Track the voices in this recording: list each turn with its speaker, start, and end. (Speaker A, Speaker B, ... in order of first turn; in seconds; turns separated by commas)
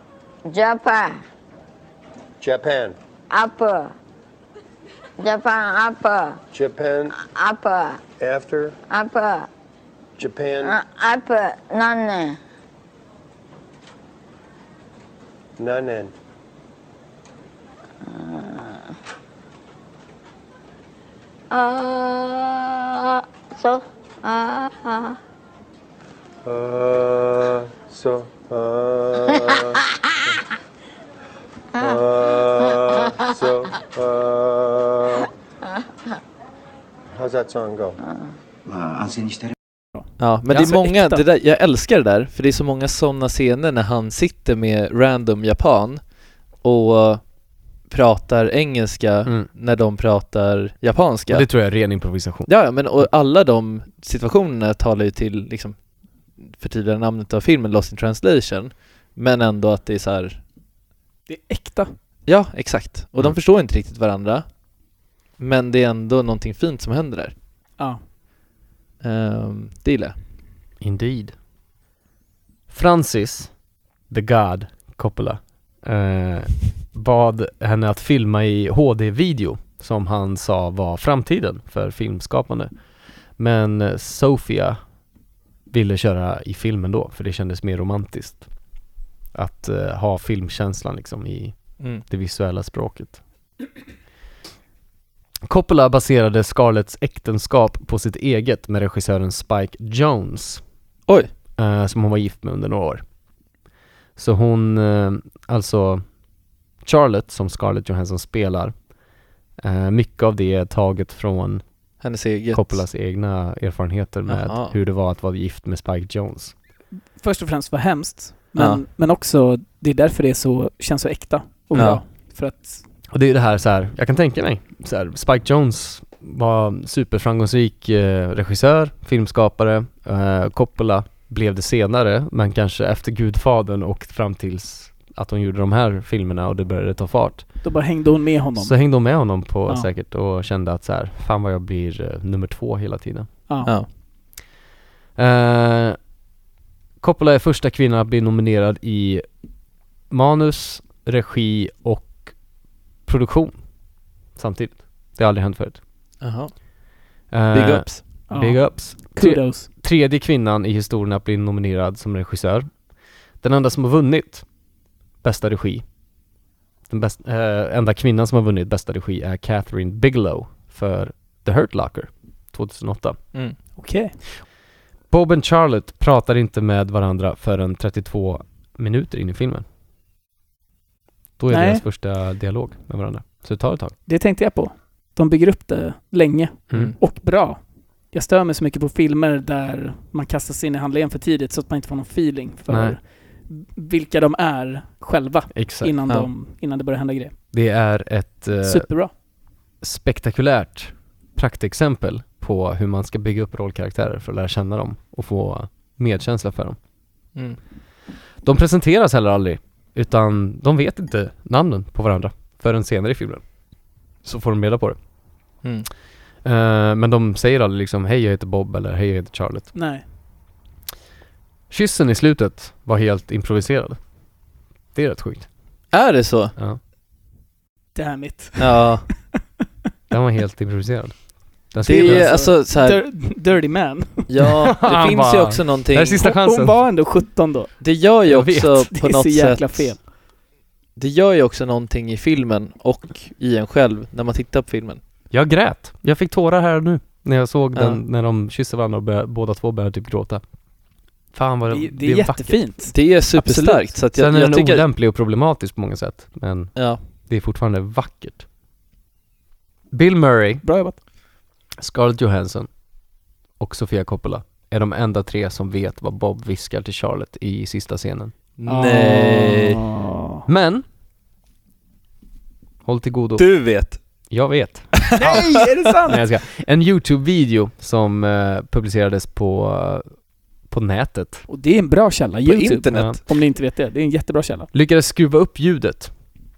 Speaker A: 0.5-1.1, Speaker B: 2.4-3.0, Speaker A: 3.3-3.9, Speaker A: 5.2-6.4, Speaker B: 6.5-7.3, Speaker A: 7.4-8.0, Speaker B: 8.1-8.8, Speaker A: 9.0-9.4, Speaker B: 10.2-10.8, Speaker A: 10.9-12.3, Speaker B: 15.6-16.1, Speaker B: 26.4-29.9, Speaker B: 31.8-35.3, Speaker B: 37.1-38.0, Speaker C: 39.9-41.2, Speaker D: 40.2-46.0, Speaker D: 46.6-47.2, Speaker D: 47.8-51.5, Speaker E: 51.3-52.5, Speaker D: 52.5-60.4, Speaker C: 61.3-61.9, Speaker D: 62.2-64.5, Speaker D: 65.4-67.3, Speaker D: 69.0-70.1, Speaker E: 70.8-71.4, Speaker E: 72.7-73.6, Speaker E: 74.1-82.8, Speaker E: 83.3-84.8, Speaker E: 85.7-88.6, Speaker E: 89.3-93.2, Speaker D: 91.8-92.0, Speaker E: 95.5-100.6, Speaker E: 101.6-103.0, Speaker E: 104.2-106.0, Speaker E: 106.8-108.8, Speaker E: 109.6-111.6, Speaker D: 112.0-112.8, Speaker E: 112.5-116.5, Speaker D: 114.3-114.7, Speaker C: 117.2-122.8, Speaker D: 118.5-118.8, Speaker D: 121.7-122.0, Speaker E: 123.1-137.7, Speaker C: 137.6-139.0, Speaker E: 138.6-143.3, Speaker C: 143.5-143.8, Speaker D: 143.6-143.9, Speaker E: 145.2-146.0, Speaker E: 147.0-149.2, Speaker E: 150.1-152.3, Speaker E: 153.0-153.6, Speaker E: 154.3-155.8, Speaker D: 156.2-156.6, Speaker E: 157.3-162.7, Speaker D: 157.5-158.0, Speaker C: 158.3-159.7, Speaker E: 163.4-164.4, Speaker E: 165.2-165.8, Speaker E: 166.9-173.4, Speaker C: 173.8-174.1, Speaker E: 175.1-179.6, Speaker E: 181.4-183.9, Speaker C: 181.5-181.8, Speaker C: 184.1-197.4, Speaker D: 186.7-187.0, Speaker E: 192.7-193.0, Speaker E: 195.5-195.9, Speaker E: 197.5-199.1, Speaker C: 198.6-199.1, Speaker E: 199.8-206.8, Speaker E: 208.4-213.4, Speaker E: 214.2-215.0, Speaker D: 215.6-215.9, Speaker E: 216.4-219.7, Speaker C: 219.7-220.0, Speaker E: 221.7-224.0, Speaker E: 224.9-225.5, Speaker D: 225.9-226.5, Speaker C: 227.9-229.4, Speaker D: 228.6-229.1, Speaker E: 230.1-232.4, Speaker D: 231.8-233.1, Speaker C: 231.9-234.3, Speaker D: 234.3-236.2, Speaker E: 234.7-236.8, Speaker C: 236.2-237.9, Speaker D: 237.8-240.1, Speaker E: 238.3-238.9, Speaker C: 238.9-240.0, Speaker D: 240.9-245.0, Speaker E: 245.3-250.4, Speaker D: 247.7-248.0, Speaker E: 251.3-252.6, Speaker C: 251.7-253.8, Speaker D: 252.9-254.8, Speaker E: 253.8-258.4, Speaker D: 256.7-257.0, Speaker E: 259.9-260.7, Speaker C: 260.6-261.0, Speaker E: 261.8-262.7, Speaker E: 263.6-268.3, Speaker D: 268.6-269.8, Speaker C: 268.7-270.4, Speaker E: 270.5-270.8, Speaker E: 272.8-273.5, Speaker D: 273.4-274.0, Speaker E: 274.3-275.3, Speaker D: 275.1-275.5, Speaker C: 275.2-276.2, Speaker E: 276.1-281.4, Speaker C: 281.5-284.7, Speaker D: 282.4-283.2, Speaker E: 284.7-286.1